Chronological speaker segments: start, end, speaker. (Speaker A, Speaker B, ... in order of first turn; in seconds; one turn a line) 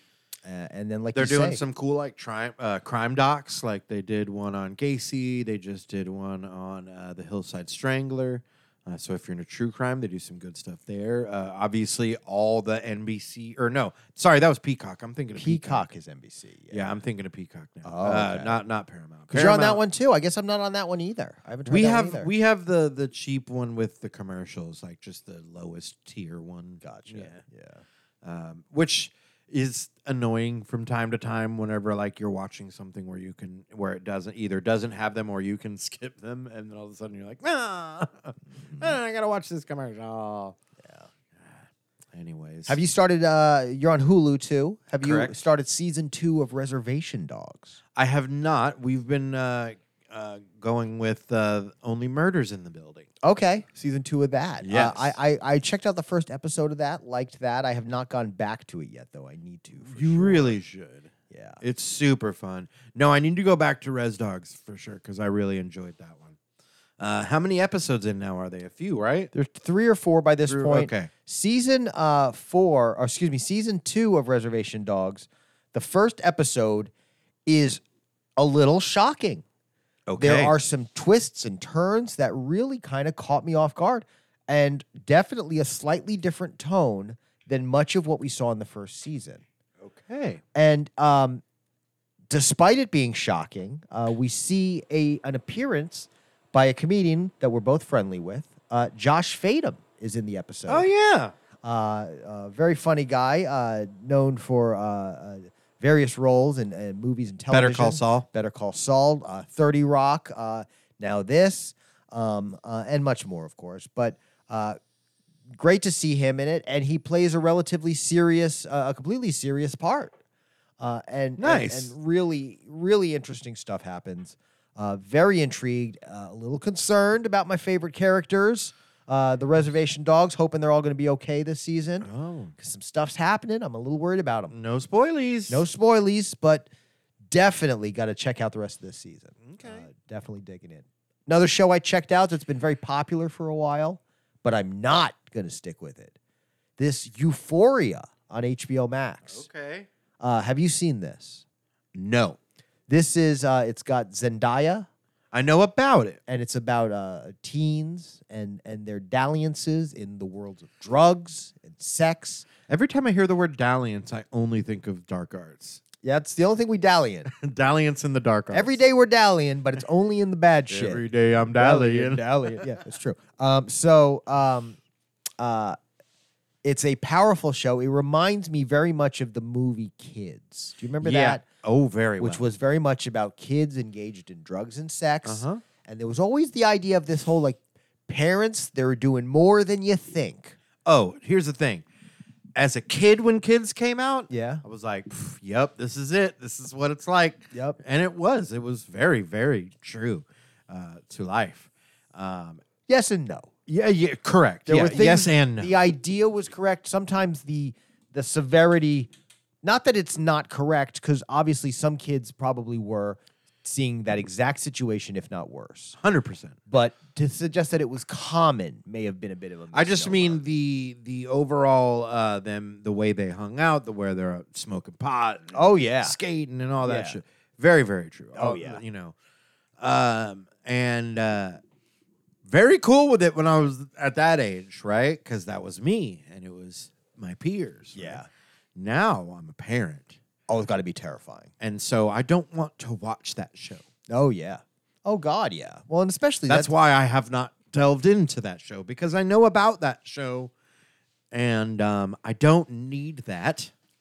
Speaker A: 0.4-1.6
Speaker B: 1.1-15.9
Speaker A: 15.4-16.9
Speaker B: 16.7-19.8
Speaker A: 17.8-18.6
Speaker A: 19.3-22.3
Speaker B: 21.6-27.4
Speaker A: 26.8-27.8
Speaker B: 28.2-40.6
Speaker A: 38.6-38.9
Speaker A: 40.8-41.1
Speaker B: 41.4-42.8
Speaker A: 42.7-47.8
Speaker B: 45.0-45.4
Speaker B: 48.0-53.1
Speaker A: 53.2-60.6
Speaker B: 54.6-55.1
Speaker B: 59.8-66.4
Speaker A: 61.3-61.6
Speaker B: 67.0-69.3
Speaker A: 69.3-76.9
Speaker B: 70.5-71.1
Speaker A: 77.5-77.8
Speaker A: 78.4-79.4
Speaker B: 80.1-80.5
Speaker A: 80.2-89.4
Speaker B: 89.8-90.4
Speaker A: 90.5-91.4
Speaker A: 92.3-100.9
Speaker B: 100.7-101.3
Speaker A: 101.6-114.8
Speaker B: 107.5-108.2
Speaker A: 115.5-120.1
Speaker A: 120.8-134.5
Speaker B: 121.4-121.9
Speaker B: 132.0-132.6
Speaker B: 134.5-135.7
Speaker A: 135.5-136.7
Speaker A: 137.3-146.2
Speaker B: 139.4-139.9
Speaker A: 146.8-149.4
Speaker B: 149.3-149.9
Speaker A: 150.2-151.4
Speaker B: 151.9-152.4
Speaker A: 152.9-154.9
Speaker B: 155.3-156.2
Speaker A: 156.3-162.5
Speaker B: 162.7-165.8
Speaker A: 166.0-167.3
Speaker B: 167.2-168.8
Speaker A: 168.5-171.0
Speaker B: 170.7-172.8
Speaker A: 171.6-174.8
Speaker A: 175.4-175.8
Speaker A: 176.6-181.4
Speaker B: 181.0-182.4
Speaker A: 182.2-190.6
Speaker B: 185.2-185.6
Speaker B: 190.8-191.8
Speaker B: 192.5-202.6
Speaker A: 194.3-194.6
Speaker A: 197.5-197.8
Speaker A: 202.9-203.5
Speaker B: 203.7-205.8
Speaker A: 204.7-209.1
Speaker A: 209.6-216.0
Speaker B: 216.0-216.6
Speaker A: 216.7-220.4
Speaker B: 219.7-229.1
Speaker A: 225.5-226.2
Speaker A: 226.8-227.2
Speaker A: 228.3-228.8
Speaker B: 229.8-231.6
Speaker B: 232.4-238.2
Speaker A: 237.9-238.3
Speaker B: 238.8-240.2
Speaker A: 240.5-241.5
Speaker B: 241.6-243.8
Speaker A: 244.1-246.7
Speaker B: 246.5-250.5
Speaker B: 251.3-253.7